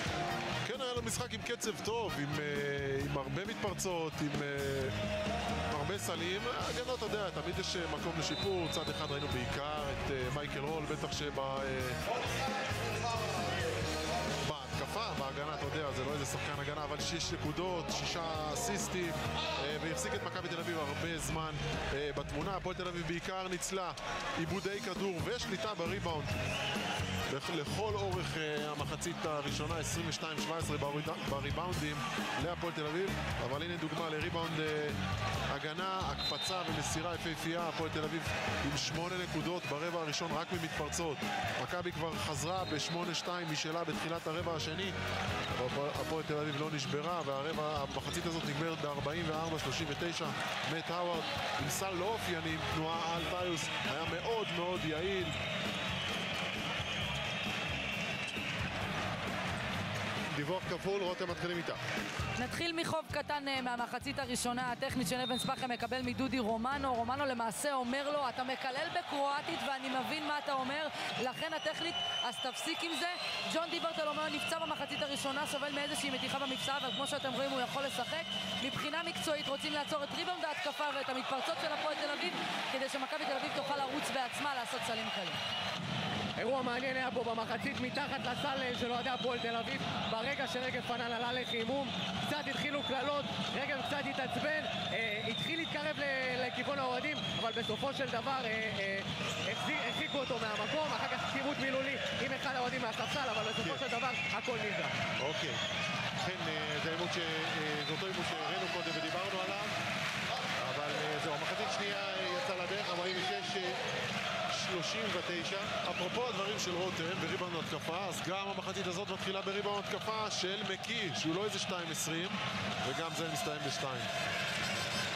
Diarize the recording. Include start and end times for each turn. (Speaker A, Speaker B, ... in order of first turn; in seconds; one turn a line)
Speaker A: 0.6-4.9
Speaker A: 5.7-12.0
Speaker A: 14.4-26.4
Speaker A: 27.3-35.0
Speaker A: 35.5-45.0
Speaker A: 45.5-55.3
Speaker B: 60.3-61.8
Speaker C: 62.4-85.4
Speaker D: 86.4-104.9
Speaker B: 105.2-105.6
Speaker B: 106.2-109.7
Speaker B: 110.6-113.8
Speaker B: 114.5-115.7
Speaker A: 115.8-124.1